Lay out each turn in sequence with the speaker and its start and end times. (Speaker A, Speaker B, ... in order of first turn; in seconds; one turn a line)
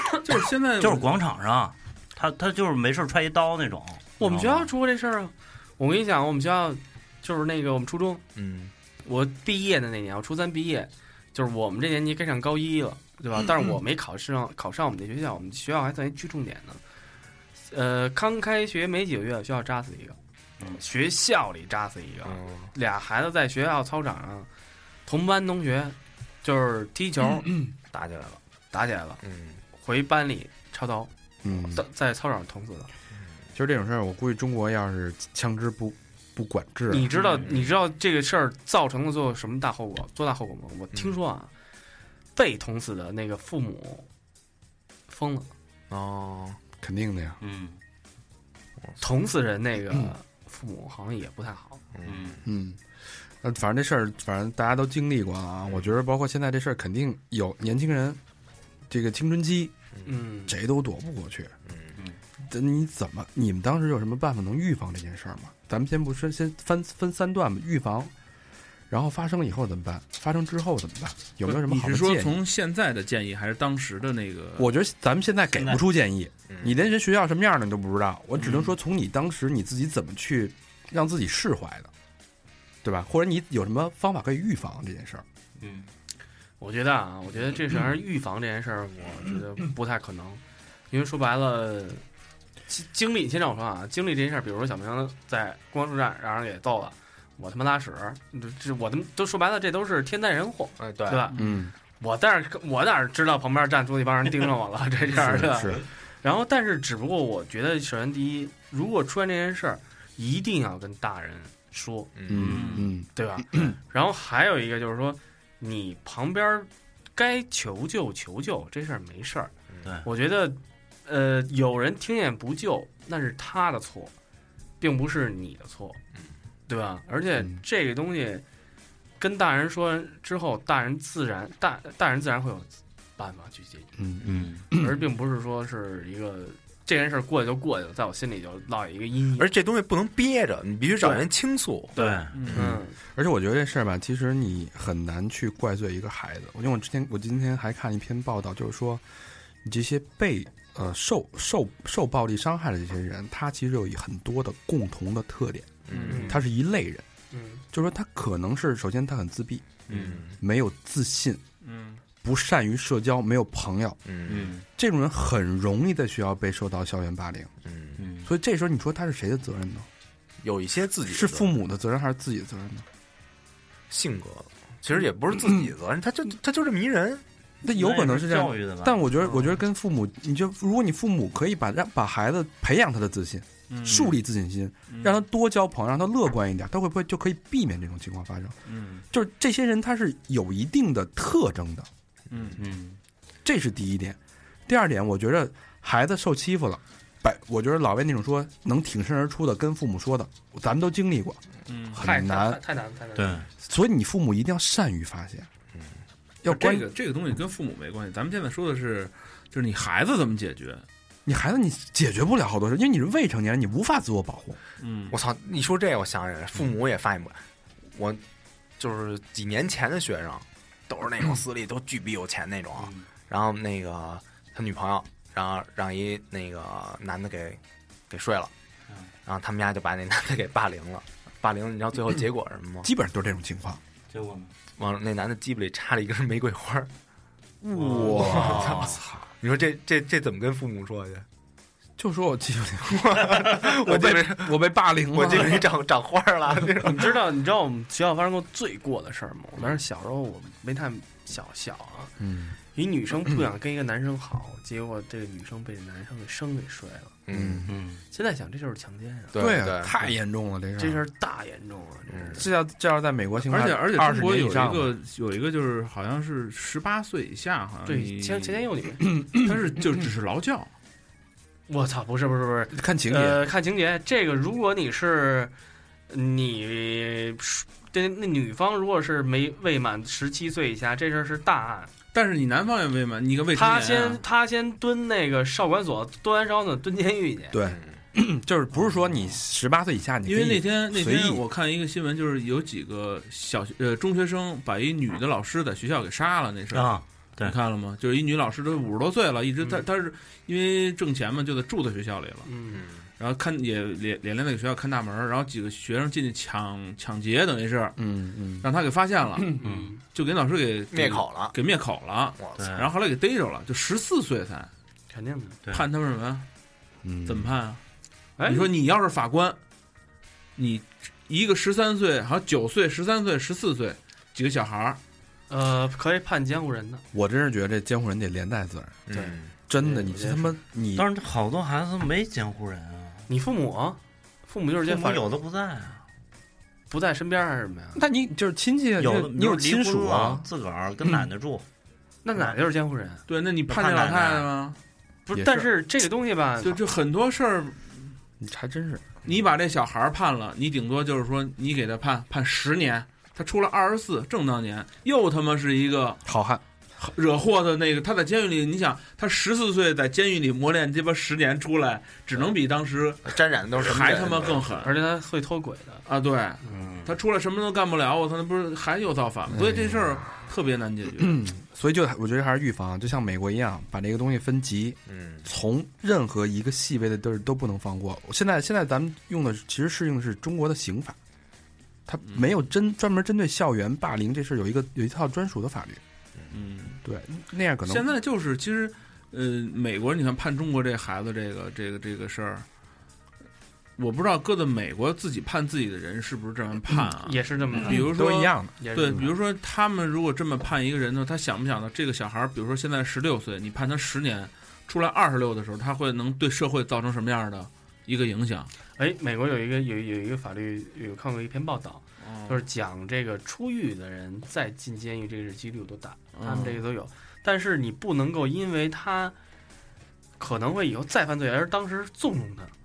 Speaker A: 0.2-1.1
Speaker B: 0.8-4.7
Speaker C: 4.2-8.2
Speaker D: 8.3-8.7
Speaker C: 9.0-16.8
Speaker C: 17.7-24.5
Speaker D: 22.2-22.7
Speaker C: 25.1-27.6
Speaker D: 27.9-28.4
Speaker C: 28.7-29.2
Speaker D: 29.2-29.6
Speaker C: 29.8-32.9
Speaker E: 31.4-31.8
Speaker E: 33.5-37.1
Speaker C: 36.9-41.5
Speaker D: 37.2-37.7
Speaker C: 42.3-44.1
Speaker C: 45.1-45.5
Speaker D: 45.9-46.6
Speaker E: 46.8-47.4
Speaker B: 47.4-47.8
Speaker C: 49.0-51.8
Speaker D: 51.9-52.4
Speaker B: 52.0-52.4
Speaker E: 52.4-52.8
Speaker E: 53.4-58.2
Speaker E: 58.9-59.7
Speaker C: 60.0-60.5
Speaker E: 60.5-61.5
Speaker D: 61.6-62.0
Speaker E: 62.4-68.1
Speaker E: 68.9-72.3
Speaker A: 71.4-74.7
Speaker E: 74.6-81.9
Speaker B: 75.5-75.8
Speaker D: 76.5-76.8
Speaker B: 78.4-78.7
Speaker E: 82.8-85.2
Speaker B: 85.6-85.9
Speaker C: 86.6-92.0
Speaker C: 92.7-101.4
Speaker D: 100.8-101.3
Speaker E: 101.3-101.7
Speaker C: 102.0-112.1
Speaker E: 105.1-105.8
Speaker D: 112.1-112.7
Speaker E: 112.3-113.7
Speaker A: 112.4-112.9
Speaker B: 112.4-112.9
Speaker C: 113.1-119.5
Speaker C: 120.0-124.1
Speaker C: 124.8-126.0
Speaker C: 126.7-128.4
Speaker C: 129.2-133.9
Speaker E: 134.0-135.0
Speaker B: 134.2-134.7
Speaker C: 134.7-139.5
Speaker D: 139.4-142.0
Speaker C: 141.9-143.0
Speaker B: 141.9-142.4
Speaker A: 142.3-142.7
Speaker E: 142.5-149.0
Speaker E: 149.6-157.0
Speaker D: 155.9-156.4
Speaker A: 155.9-156.3
Speaker C: 156.1-156.4
Speaker C: 157.3-157.6
Speaker E: 157.7-159.8
Speaker D: 159.9-160.3
Speaker B: 159.9-160.2
Speaker E: 160.4-161.4
Speaker A: 161.6-162.0
Speaker E: 162.2-164.0
Speaker D: 164.0-164.5
Speaker B: 164.3-164.6
Speaker E: 164.7-167.5
Speaker D: 167.6-168.0
Speaker B: 168.0-168.3
Speaker E: 168.2-169.9
Speaker D: 170.4-171.5
Speaker E: 171.1-172.8
Speaker D: 173.9-177.2
Speaker E: 175.4-175.7
Speaker E: 177.6-188.6
Speaker B: 177.7-179.5
Speaker A: 183.7-184.2
Speaker A: 184.9-185.2
Speaker A: 188.7-189.0
Speaker E: 189.1-191.9
Speaker A: 192.3-192.6
Speaker B: 192.6-193.0
Speaker E: 193.4-201.4
Speaker A: 201.7-202.0
Speaker E: 201.9-202.6
Speaker C: 202.0-203.4
Speaker B: 203.2-203.5
Speaker E: 203.6-205.5
Speaker E: 206.4-206.9
Speaker A: 206.4-210.8
Speaker E: 211.2-214.6
Speaker A: 214.8-215.2
Speaker D: 215.1-217.4
Speaker D: 217.9-218.2
Speaker D: 218.8-228.5
Speaker B: 222.8-223.1
Speaker D: 229.2-232.9
Speaker E: 232.8-233.8
Speaker B: 234.1-234.5
Speaker D: 234.8-236.9
Speaker E: 237.6-239.2
Speaker D: 237.9-241.2
Speaker B: 238.0-239.0
Speaker E: 242.0-245.8
Speaker D: 242.8-244.6
Speaker D: 245.1-247.1
Speaker C: 246.8-252.1
Speaker E: 252.2-252.6
Speaker C: 252.7-257.1
Speaker D: 257.3-257.7
Speaker E: 257.3-257.7
Speaker B: 257.6-258.0
Speaker C: 258.1-259.4
Speaker D: 259.3-260.1
Speaker E: 259.4-261.0
Speaker C: 260.8-262.5
Speaker D: 262.1-262.4
Speaker E: 262.4-264.9
Speaker A: 263.4-268.6
Speaker C: 267.9-269.0
Speaker E: 269.2-269.5
Speaker A: 269.2-270.7
Speaker C: 271.7-275.5
Speaker E: 272.7-273.4
Speaker C: 276.1-281.9
Speaker A: 282.1-284.2
Speaker C: 283.5-287.6
Speaker E: 287.5-291.4
Speaker A: 290.2-302.5
Speaker B: 296.7-297.6
Speaker C: 302.4-302.8
Speaker D: 302.7-303.1
Speaker A: 303.2-308.0
Speaker E: 308.0-308.7
Speaker A: 308.6-314.7
Speaker C: 309.4-310.0
Speaker B: 309.6-309.9
Speaker D: 310.9-311.5
Speaker D: 312.4-312.8
Speaker B: 312.6-312.9
Speaker C: 315.1-315.6
Speaker A: 315.7-316.4
Speaker E: 317.0-317.5
Speaker A: 317.2-317.8
Speaker C: 318.4-318.7
Speaker A: 318.4-319.6
Speaker A: 320.6-325.0
Speaker C: 325.5-327.0
Speaker E: 327.1-329.0
Speaker D: 329.1-329.5
Speaker C: 329.1-330.6
Speaker E: 329.7-331.1
Speaker B: 330.9-333.3
Speaker C: 333.3-335.2
Speaker B: 334.8-336.0
Speaker C: 336.9-338.0
Speaker E: 337.9-340.4
Speaker B: 339.0-341.6
Speaker C: 342.2-343.2
Speaker A: 343.3-344.8
Speaker B: 343.7-344.5
Speaker C: 345.2-346.8
Speaker E: 345.3-345.7
Speaker A: 346.6-348.1
Speaker E: 348.4-349.2
Speaker A: 349.2-356.2
Speaker E: 356.2-356.6
Speaker A: 357.0-364.9
Speaker D: 363.2-364.7
Speaker C: 364.8-366.0
Speaker A: 366.1-371.4
Speaker C: 366.6-366.9
Speaker B: 366.7-367.1
Speaker E: 369.5-370.2
Speaker E: 371.2-381.2
Speaker D: 375.1-375.4
Speaker E: 382.1-386.0
Speaker A: 386.5-387.0
Speaker E: 387.0-388.1
Speaker A: 387.9-392.6
Speaker A: 394.0-408.7
Speaker C: 397.2-398.1
Speaker E: 397.7-399.2
Speaker C: 398.8-399.3
Speaker C: 409.0-419.3
Speaker A: 412.2-412.6
Speaker A: 416.4-416.8
Speaker C: 420.4-422.7